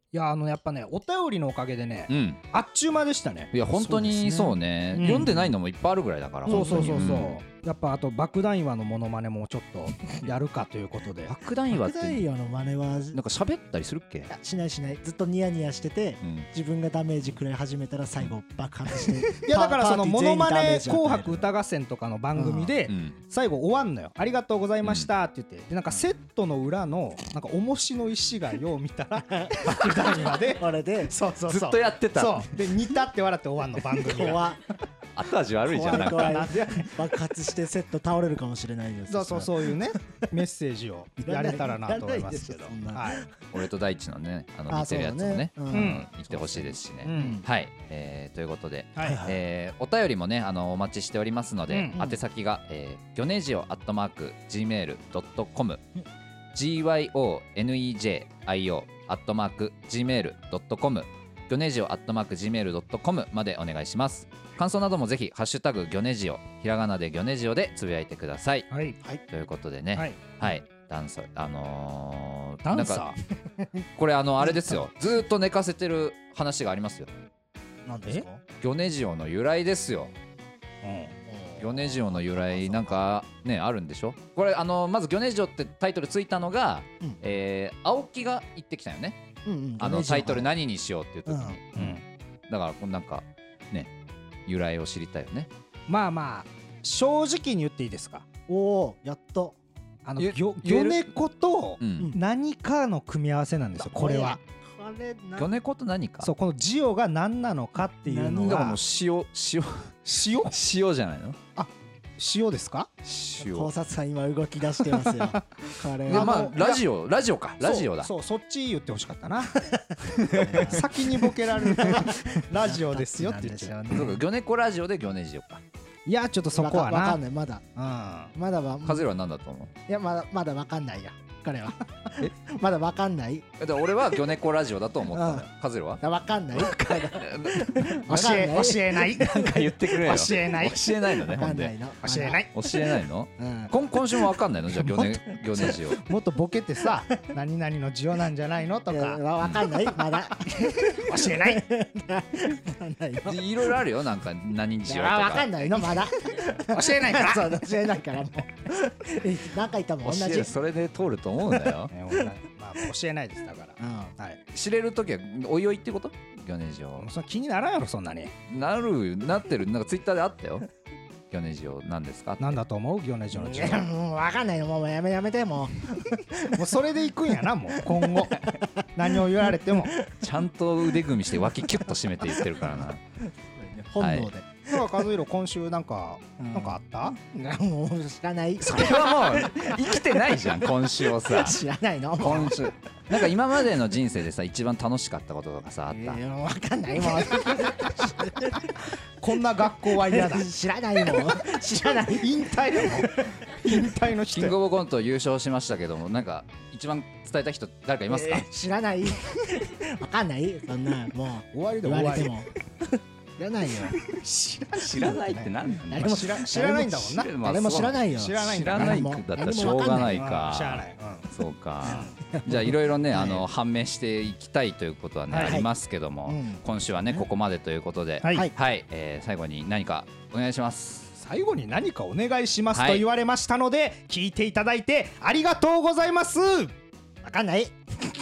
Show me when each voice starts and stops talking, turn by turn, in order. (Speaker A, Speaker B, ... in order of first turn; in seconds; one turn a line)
Speaker A: 0.1-3.5
Speaker B: 2.1-2.4
Speaker B: 3.5-7.4
Speaker C: 3.7-4.5
Speaker A: 4.9-5.5
Speaker C: 6.5-7.1
Speaker A: 6.5-11.3
Speaker B: 11.2-12.2
Speaker C: 11.7-13.2
Speaker B: 13.1-14.3
Speaker C: 14.3-21.5
Speaker B: 16.2-16.5
Speaker A: 19.3-30.6
Speaker C: 22.3-22.8
Speaker B: 22.9-23.2
Speaker B: 24.8-25.1
Speaker C: 29.3-31.8
Speaker A: 31.2-34.5
Speaker B: 31.4-32.5
Speaker C: 33.8-34.6
Speaker B: 35.1-36.5
Speaker C: 35.7-40.2
Speaker A: 35.8-37.0
Speaker A: 39.1-43.2
Speaker C: 41.2-43.4
Speaker B: 43.5-55.8
Speaker C: 44.7-47.4
Speaker A: 45.7-46.1
Speaker A: 47.0-47.4
Speaker A: 49.0-49.2
Speaker C: 49.0-49.4
Speaker A: 51.7-52.0
Speaker B: 56.5-68.7
Speaker A: 68.7-69.0
Speaker B: 69.3-73.1
Speaker A: 69.9-70.2
Speaker A: 72.6-73.2
Speaker C: 73.4-73.8
Speaker B: 74.0-77.1
Speaker C: 77.8-78.4
Speaker B: 78.6-80.1
Speaker A: 80.8-81.1
Speaker C: 81.3-83.0
Speaker B: 81.6-89.2
Speaker C: 89.4-90.5
Speaker B: 89.8-93.9
Speaker C: 91.3-91.6
Speaker A: 91.7-92.0
Speaker B: 94.5-95.5
Speaker A: 95.9-98.2
Speaker C: 98.5-99.6
Speaker A: 100.0-104.4
Speaker B: 100.2-101.0
Speaker B: 101.8-102.1
Speaker C: 103.8-105.5
Speaker B: 105.3-106.3
Speaker A: 106.2-108.8
Speaker C: 108.0-108.8
Speaker B: 108.4-111.4
Speaker A: 110.0-110.5
Speaker A: 111.5-112.9
Speaker B: 113.0-113.7
Speaker C: 113.4-116.6
Speaker A: 116.0-116.8
Speaker B: 116.1-118.1
Speaker A: 117.6-119.6
Speaker C: 119.5-124.2
Speaker B: 120.2-120.8
Speaker A: 120.4-123.8
Speaker B: 123.9-125.6
Speaker A: 126.0-127.2
Speaker C: 126.5-127.6
Speaker A: 127.8-128.3
Speaker C: 128.3-129.0
Speaker B: 128.8-129.7
Speaker C: 129.9-133.4
Speaker B: 133.6-136.0
Speaker C: 135.1-135.4
Speaker C: 136.0-139.5
Speaker B: 136.6-138.0
Speaker A: 137.8-141.5
Speaker B: 139.2-141.7
Speaker C: 141.3-142.4
Speaker A: 142.0-142.5
Speaker B: 142.5-146.0
Speaker C: 143.4-143.7
Speaker A: 144.8-151.7
Speaker C: 146.9-147.2
Speaker C: 148.9-153.8
Speaker B: 153.2-155.8
Speaker C: 154.8-160.5
Speaker A: 156.5-157.6
Speaker B: 160.0-161.9
Speaker A: 161.9-164.4
Speaker C: 163.8-164.1
Speaker B: 164.5-167.1
Speaker A: 167.0-168.3
Speaker B: 168.5-170.7
Speaker B: 171.3-172.5
Speaker A: 172.4-173.9
Speaker C: 173.3-176.7
Speaker A: 176.5-179.9
Speaker C: 177.7-180.1
Speaker B: 180.2-183.0
Speaker C: 182.3-182.7
Speaker C: 183.4-185.0
Speaker B: 184.0-184.3
Speaker A: 184.7-187.2
Speaker C: 186.4-192.7
Speaker B: 188.6-191.6
Speaker B: 192.2-196.2
Speaker C: 195.9-198.8
Speaker A: 198.3-200.5
Speaker C: 199.9-203.8
Speaker A: 201.1-201.5
Speaker A: 202.2-204.6
Speaker B: 204.3-208.5
Speaker C: 208.1-214.0
Speaker A: 211.5-212.4
Speaker B: 214.1-216.4
Speaker A: 214.5-217.3
Speaker C: 215.9-220.3
Speaker B: 217.1-231.1
Speaker A: 218.1-221.3
Speaker A: 221.8-222.2
Speaker C: 221.9-223.4
Speaker A: 225.3-225.6
Speaker C: 225.4-225.7
Speaker C: 226.2-227.2
Speaker A: 228.2-228.5
Speaker A: 231.2-236.7
Speaker B: 232.7-233.0
Speaker C: 237.2-237.7